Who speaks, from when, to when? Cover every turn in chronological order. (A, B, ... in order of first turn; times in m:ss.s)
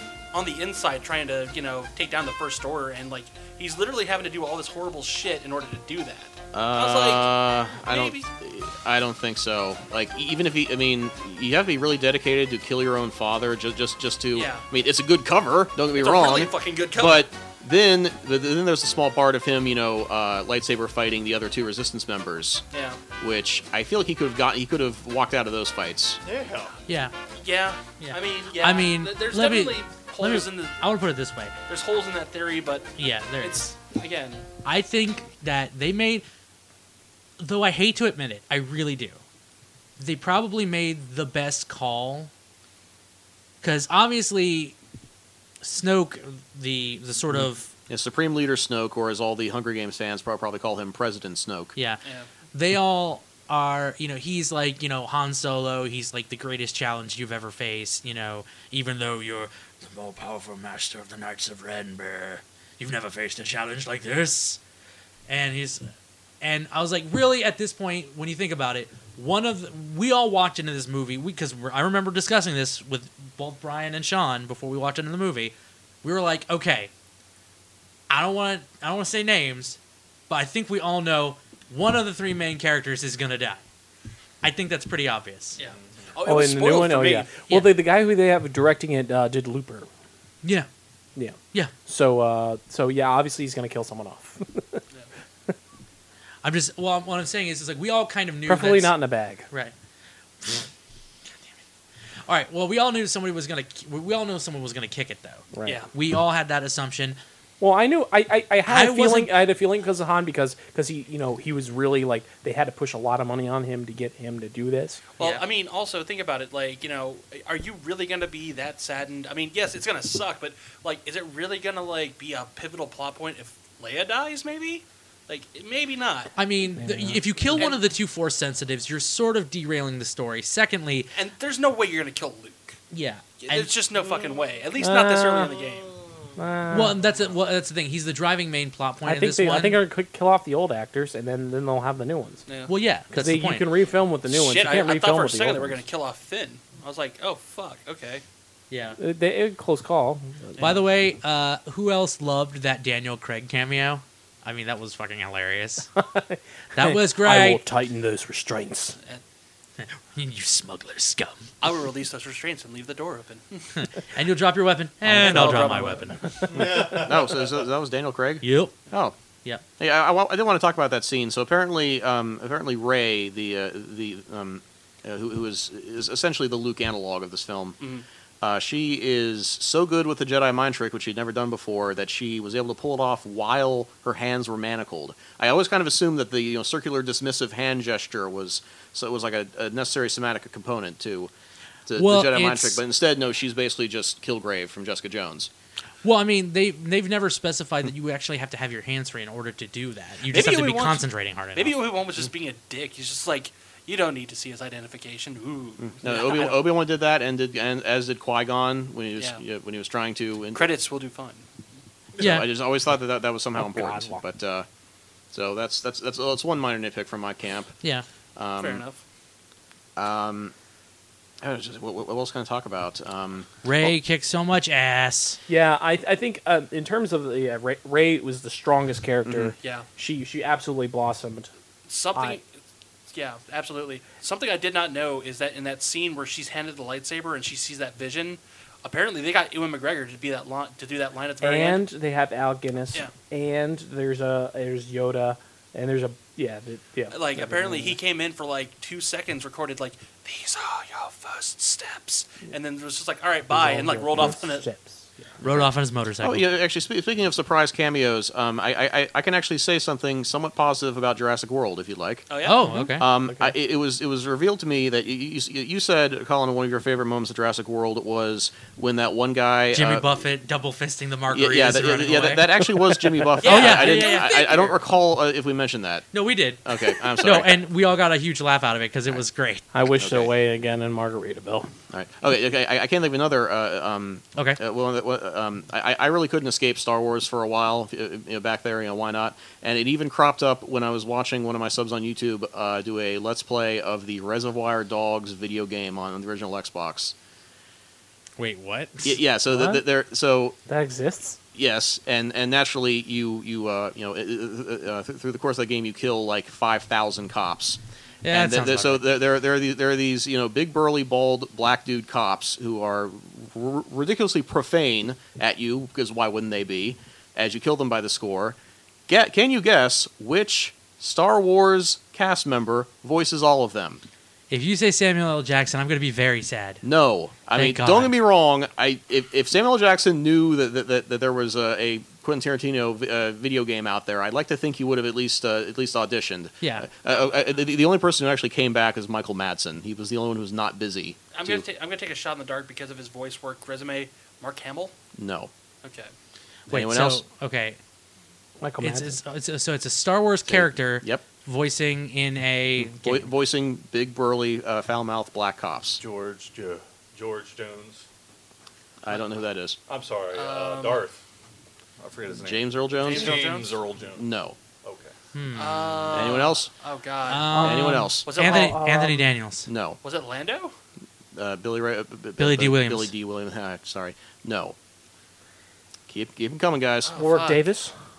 0:00.3-0:07.3 A
0:06.5-0:22.6 B
0:07.8-0:08.3 A
0:14.3-0:14.6 A
0:16.0-0:17.3 A
0:22.7-0:23.0 A
0:23.2-0:26.2 B
0:26.2-0:26.8 C
0:26.9-0:27.1 D
0:27.4-0:30.8 A
0:28.0-0:31.6 D
0:31.7-0:32.9 A
0:33.0-0:33.8 D
0:33.4-0:34.5 A
0:34.6-0:36.2 D
0:37.4-0:39.2 D
0:40.0-0:42.3 D
0:43.6-0:44.8 D
0:45.6-0:47.7 D
0:47.3-0:51.8 B
0:51.8-0:52.0 D
0:52.5-1:04.6 D
1:05.3-1:05.9 D
1:06.4-1:16.9 D
1:18.1-1:19.8 D
1:20.3-1:23.6 D
1:24.4-1:25.6 D
1:25.6-1:27.4 A
1:26.2-1:29.9 E
1:27.5-1:27.8 D
1:30.4-1:30.7 D
1:31.2-1:34.8 E
1:36.4-1:39.0 D
1:38.5-1:39.5 E
1:42.3-1:47.2 D
1:45.5-1:45.8 E
1:45.6-1:45.9 A
1:47.6-1:55.0 E
1:48.7-1:49.3 D
1:55.2-2:06.3 A
1:55.2-1:55.4 D
2:06.4-2:11.1 D
2:06.7-2:07.7 E
2:11.1-2:12.8 A
2:12.9-2:13.7 D
2:13.4-2:16.0 A
2:14.8-2:15.5 E
2:16.4-2:17.0 E
2:16.7-2:19.8 D
2:19.0-2:22.4 E
2:22.5-2:22.7 A
2:22.7-2:23.7 D
2:23.1-2:25.8 E
2:24.3-2:28.2 A
2:28.7-2:29.0 D
2:29.0-2:30.7 E
2:30.6-2:35.9 D
2:36.0-2:39.0 E
2:36.8-2:37.6 D
2:39.8-2:41.4 D
2:41.6-2:43.7 A
2:43.8-2:46.3 D
2:45.1-2:46.6 E
2:45.1-2:46.4 A
2:46.5-2:47.6 C
2:46.9-2:49.2 B
2:48.4-2:48.8 D
2:49.8-2:57.8 B
2:57.8-2:58.0 A
2:58.4-3:11.3 B
3:11.9-3:15.5 B
3:12.0-3:12.8 D
3:16.0-3:21.8 D
3:20.3-3:26.6 A
3:25.9-3:30.7 B
3:29.2-3:29.4 A
3:30.5-3:31.5 A
3:32.2-3:32.5 D
3:32.2-3:34.7 B
3:33.6-3:34.2 E
3:35.3-3:37.8 B
3:38.4-3:38.8 B
3:38.6-3:39.0 A
3:40.0-3:40.5 B
3:41.4-3:44.0 B
3:43.6-3:45.4 D
3:45.5-3:51.5 E
3:49.2-3:49.5 B
3:49.6-3:49.9 A
3:51.9-3:52.5 A
3:52.2-3:52.4 E
3:53.1-4:01.8 A
4:01.4-4:08.0 E
4:07.1-4:14.7 A
4:13.5-4:15.3 E
4:15.4-4:16.4 D
4:15.4-4:22.3 B
4:22.3-4:22.8 A
4:22.4-4:23.0 D
4:22.7-4:23.5 E
4:23.0-4:30.2 B
4:29.7-4:32.5 D
4:31.3-4:36.1 B
4:33.4-4:34.7 A
4:33.4-4:34.6 D
4:36.1-4:39.6 D
4:36.6-4:37.6 B
4:39.7-4:41.7 E
4:39.8-4:40.3 B
4:41.9-4:57.2 B
4:58.4-4:59.1 D
4:59.0-5:00.6 B
4:59.5-4:59.8 E
5:00.7-5:01.4 E
5:01.6-5:18.6 B
5:08.2-5:09.1 D
5:19.1-5:24.0 B
5:24.5-5:26.8 D
5:26.8-5:41.6 B
5:27.5-5:28.1 D
5:36.6-5:36.9 D
5:41.3-5:44.9 A
5:45.2-5:45.5 B
5:45.8-5:46.1 A
5:46.7-5:47.2 B
5:46.7-5:47.8 D
5:48.6-5:49.2 E
5:48.8-5:53.3 D
5:50.5-5:51.2 B
5:52.8-5:56.0 B
5:56.0-5:58.1 C
5:59.0-5:59.8 B
5:59.9-6:01.2 C
6:00.3-6:01.0 A
6:02.0-6:04.3 C
6:02.4-6:03.5 B
6:03.0-6:03.8 A
6:04.1-6:04.6 B
6:04.8-6:05.1 C
6:05.3-6:06.4 D
6:05.5-6:08.8 A
6:06.1-6:06.7 B
6:07.2-6:09.7 D
6:07.5-6:09.3 E
6:07.6-6:08.3 B
6:09.7-6:10.0 B
6:10.0-6:10.7 A
6:11.3-6:14.8 B
6:12.4-6:13.1 D
6:16.1-6:17.2 B
6:17.0-6:17.7 A
6:17.2-6:17.9 E